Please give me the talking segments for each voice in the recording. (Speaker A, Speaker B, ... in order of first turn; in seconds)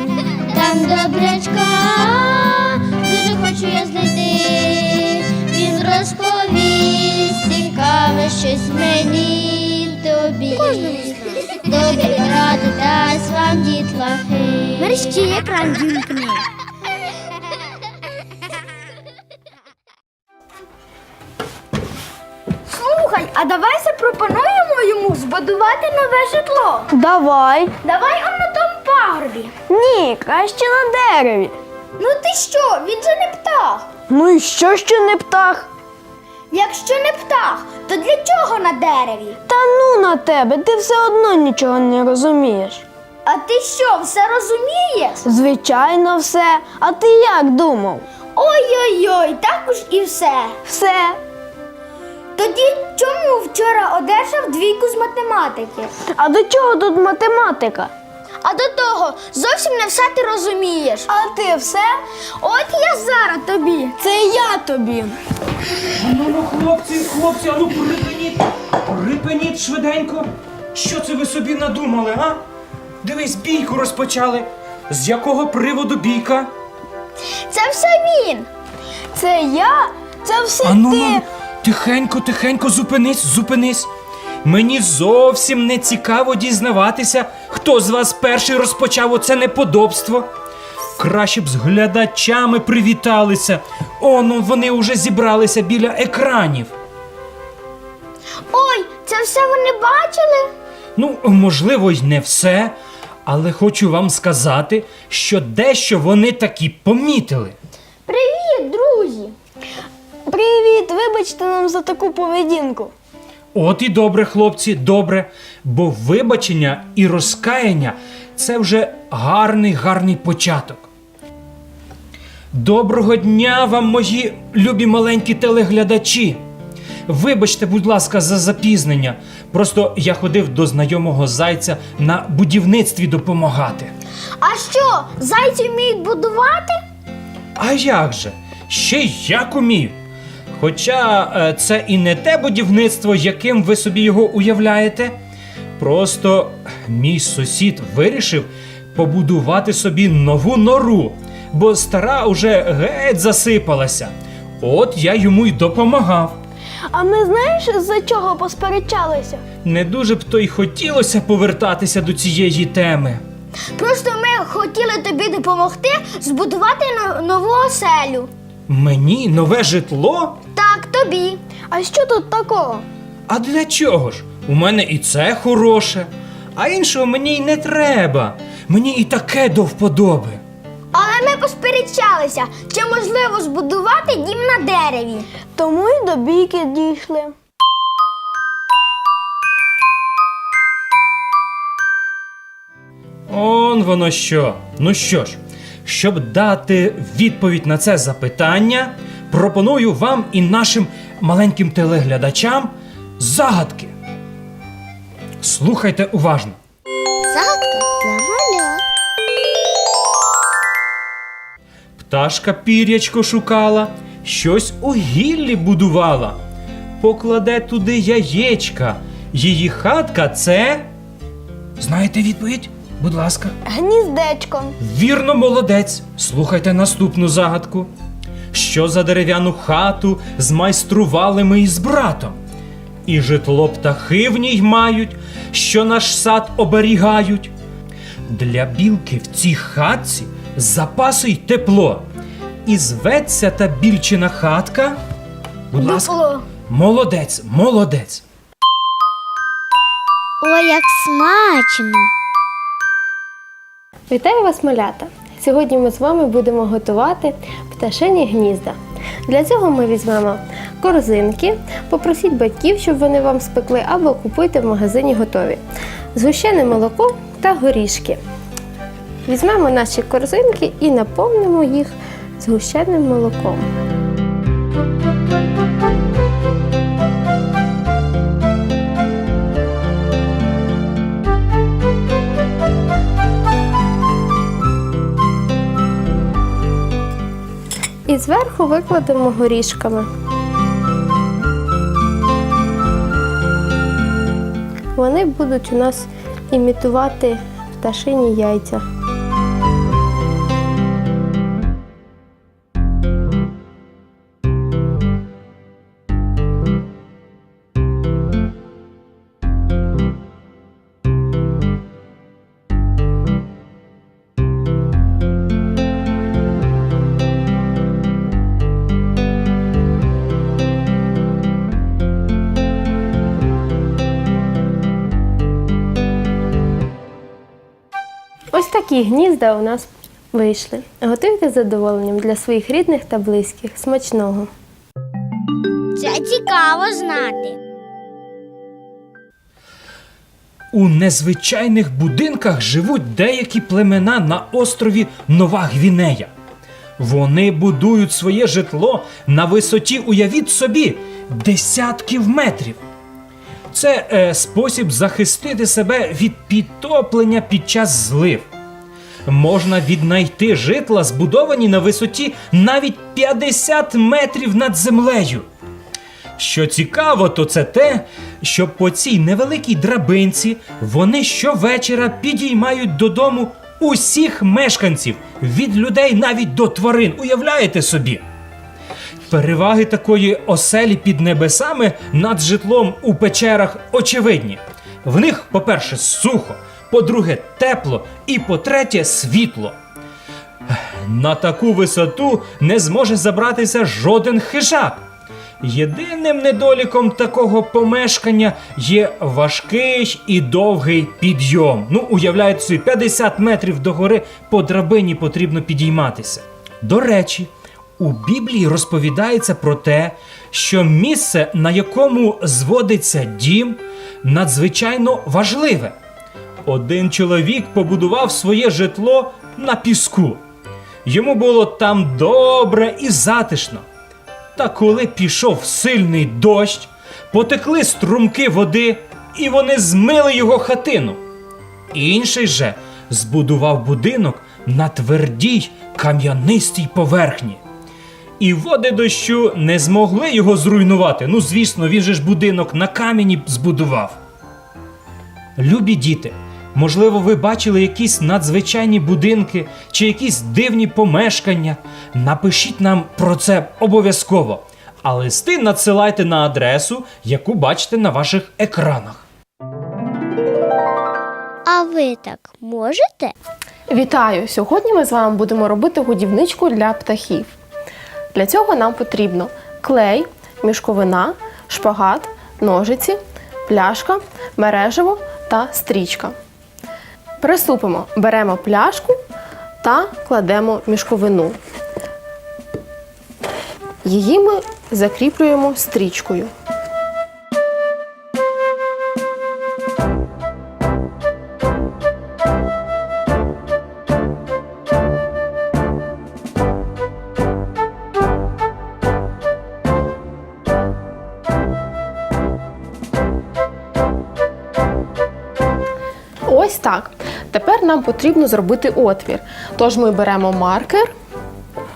Speaker A: 0.4-16.4, 207.3-208.8, 250.4-252.1, 335.9-337.6, 461.7-463.3
Speaker B: 22.7-26.9, 27.8-29.6, 32.0-33.9, 36.5-39.4, 43.2-45.2, 48.3-50.6, 52.3-55.9, 58.4-61.1, 62.4-64.0, 77.5-78.5, 98.5-100.4, 108.1-109.3, 134.4-136.8, 163.8-168.3, 170.5-171.4, 180.9-185.3, 245.8-246.4
Speaker C: 26.9-27.7, 29.7-31.6, 34.1-35.7, 39.5-42.8, 45.2-48.0, 50.7-51.2, 56.0-57.9, 61.1-61.9, 64.0-65.1, 79.1-81.2, 110.3-112.9, 156.9-159.4, 171.7-172.8, 185.5-187.3, 223.7-224.8
Speaker D: 66.0-72.4, 73.0-76.5, 80.6-83.9, 84.4-90.3, 91.0-96.7, 101.0-102.8, 103.2-107.6, 113.5-120.9, 122.5-126.4, 127.1-133.9, 137.6-140.0, 140.5-145.2, 145.8-156.3, 159.7-163.2, 168.7-170.4, 173.3-180.4, 193.3-203.9, 205.4-206.6, 212.0-216.4, 217.0-220.9, 221.8-223.5, 224.8-227.9, 228.5-232.4, 233.1-237.5, 238.3-242.1, 242.7-245.0, 245.7-246.2, 246.7-248.2, 340.7-346.3, 347.0-352.8, 353.7-358.5, 359.2-365.4, 366.4-378.2, 379.3-389.8, 390.7-395.0, 395.6-415.9, 416.6-420.4, 421.0-423.8, 424.5-431.2, 431.9-437.6, 438.4-444.2, 445.6-459.2
Speaker E: 254.1-265.6, 266.1-268.2, 269.2-273.6, 288.1-290.1, 294.9-298.8, 328.5-334.5, 463.9-467.5, 468.3-476.3, 477.4-479.2, 479.8-481.6, 484.0-486.5, 506.5-511.1